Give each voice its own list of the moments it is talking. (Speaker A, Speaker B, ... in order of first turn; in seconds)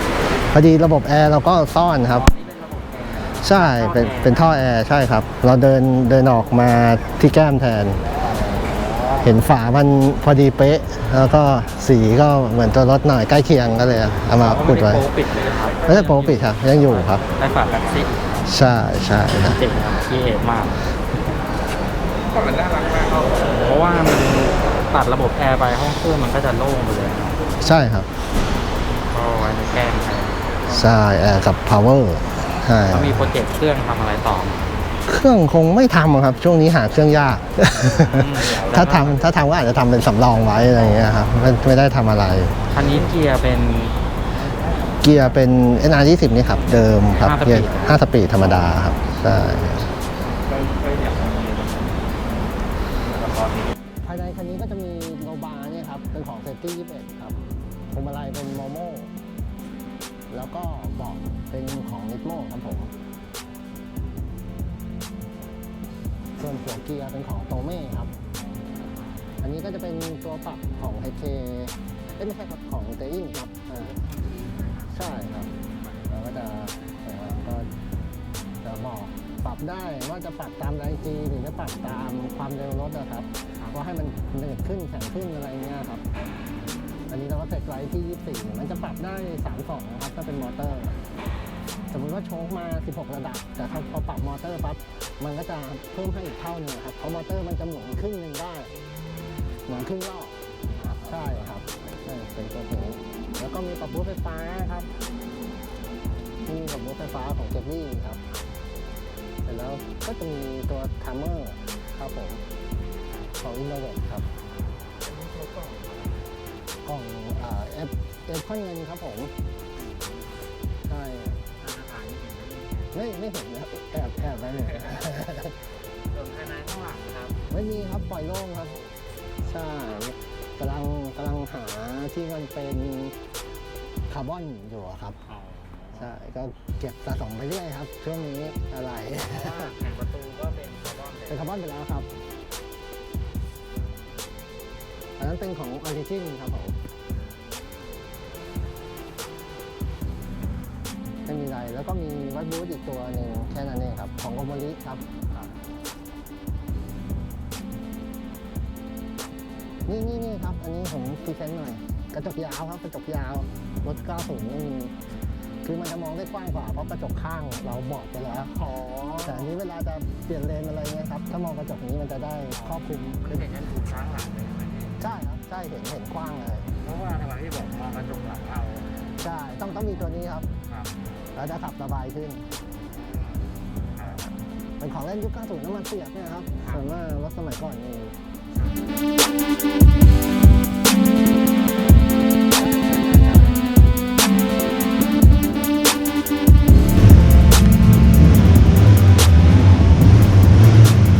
Speaker A: 0.5-2.3, 3.4-8.0, 9.2-15.1, 15.9-17.2, 18.4-19.6, 27.6-28.1, 30.7-33.2, 35.1-42.6, 45.0-49.9, 54.0-57.4, 57.9-59.1, 60.3-62.9, 66.4-68.1, 69.4-73.9, 74.9-75.5, 76.1-77.7, 78.6-86.0, 87.1-91.0, 91.9-98.7, 99.7-100.4, 100.9-104.9, 106.5-108.2, 109.5-112.4, 113.4-114.2, 116.8-119.3, 120.9-121.4, 122.9-125.5, 127.5-128.8, 129.4-133.2, 134.1-135.2, 136.0-139.7, 141.3-142.1, 145.2-146.8, 151.2-155.0, 159.9-164.9, 165.6-168.7, 169.2-173.5, 175.0-176.7, 179.2-180.5, 181.3-182.4, 184.8-188.2, 192.7-193.6
Speaker B: 2.0-4.6, 8.2-9.3, 14.4-18.5, 19.4-20.8, 22.3-27.4, 29.0-30.9, 32.9-34.6, 38.0-39.4, 40.7-41.1, 42.7-45.0, 47.1-48.7, 50.5-51.7, 53.2-53.5, 73.8-74.7, 100.9-101.5, 115.1-116.1, 119.8-120.3, 121.6-123.0, 126.1-127.4, 135.3-136.1, 139.2-141.5, 168.5-169.5, 172.5-175.0, 176.8-178.9, 180.7-181.0, 183.9-184.3, 188.6-188.8, 193.0-193.2